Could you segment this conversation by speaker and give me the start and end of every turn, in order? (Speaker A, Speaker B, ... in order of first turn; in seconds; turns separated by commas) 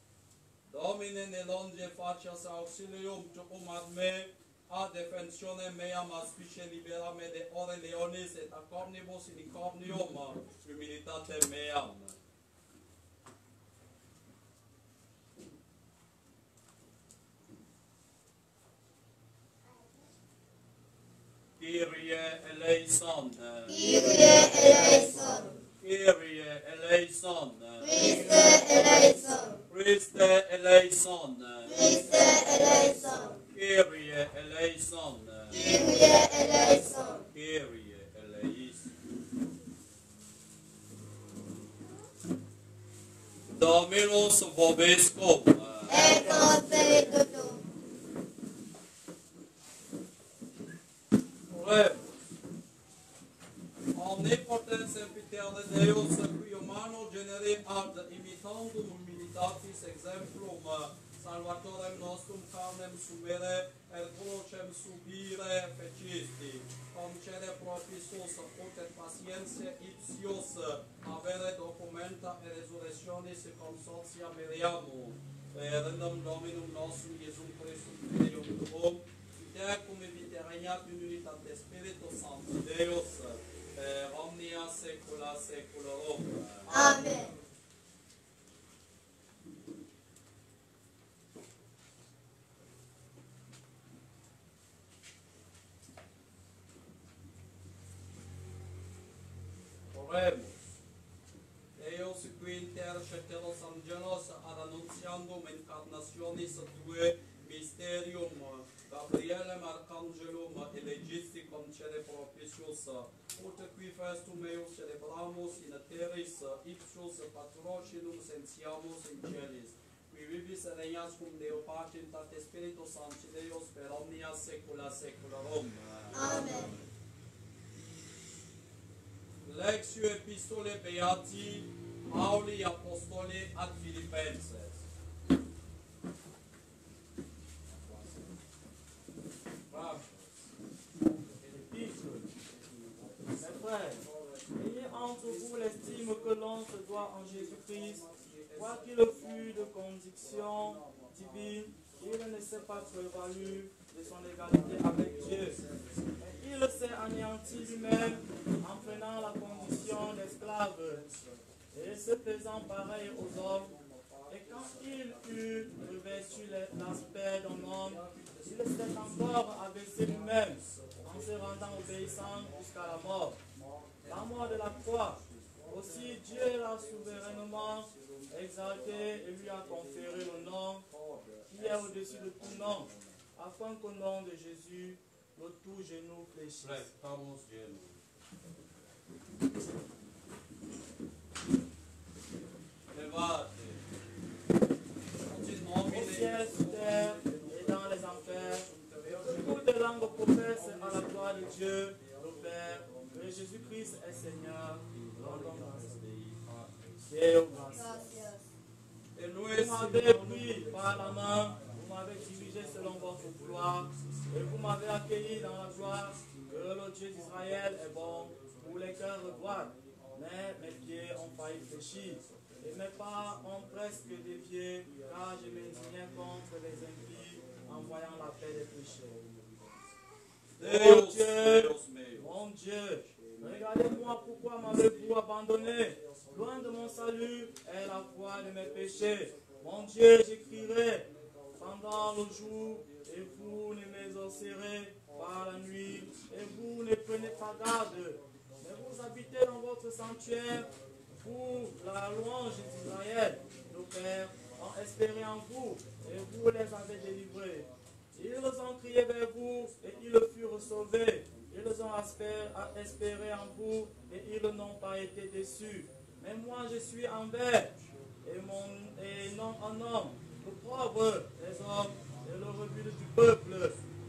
Speaker A: 0.7-12.2, Speaker A: 21.6-24.8, Speaker B: 23.7-25.5, Speaker A: 25.8-28.7, Speaker B: 27.8-29.6, Speaker A: 29.7-32.4, Speaker B: 31.6-33.3, Speaker A: 33.5-35.7, Speaker B: 35.5-37.2, Speaker A: 37.2-38.9, Speaker A: 43.6-46.5, Speaker B: 45.9-47.6, Speaker A: 51.5-52.0, Speaker A: 53.9-87.0, Speaker B: 86.7-87.3, Speaker A: 99.9-100.7, Speaker A: 101.8-126.8, Speaker B: 126.1-126.7, Speaker A: 129.4-134.8, Speaker A: 139.7-140.0, Speaker C: 141.4-142.3, Speaker A: 142.8-144.6, Speaker C: 143.4-144.0, Speaker C: 144.6-148.0, Speaker A: 147.5-149.2, Speaker C: 148.6-155.6, Speaker A: 150.4-151.3, Speaker A: 154.9-156.1, Speaker C: 156.2-161.1, Speaker C: 161.7-163.7, Speaker C: 164.3-173.4, Speaker A: 167.9-168.5, Speaker C: 174.0-180.8, Speaker C: 181.5-186.8, Speaker A: 186.6-188.0, Speaker A: 192.9-193.8, Speaker A: 195.2-199.6, Speaker C: 195.8-205.9, Speaker A: 200.9-201.1, Speaker A: 205.0-206.9, Speaker C: 207.1-208.1, Speaker B: 207.7-208.4, Speaker A: 209.1-210.9, Speaker C: 209.5-229.2, Speaker A: 230.6-232.3, Speaker C: 230.6-273.8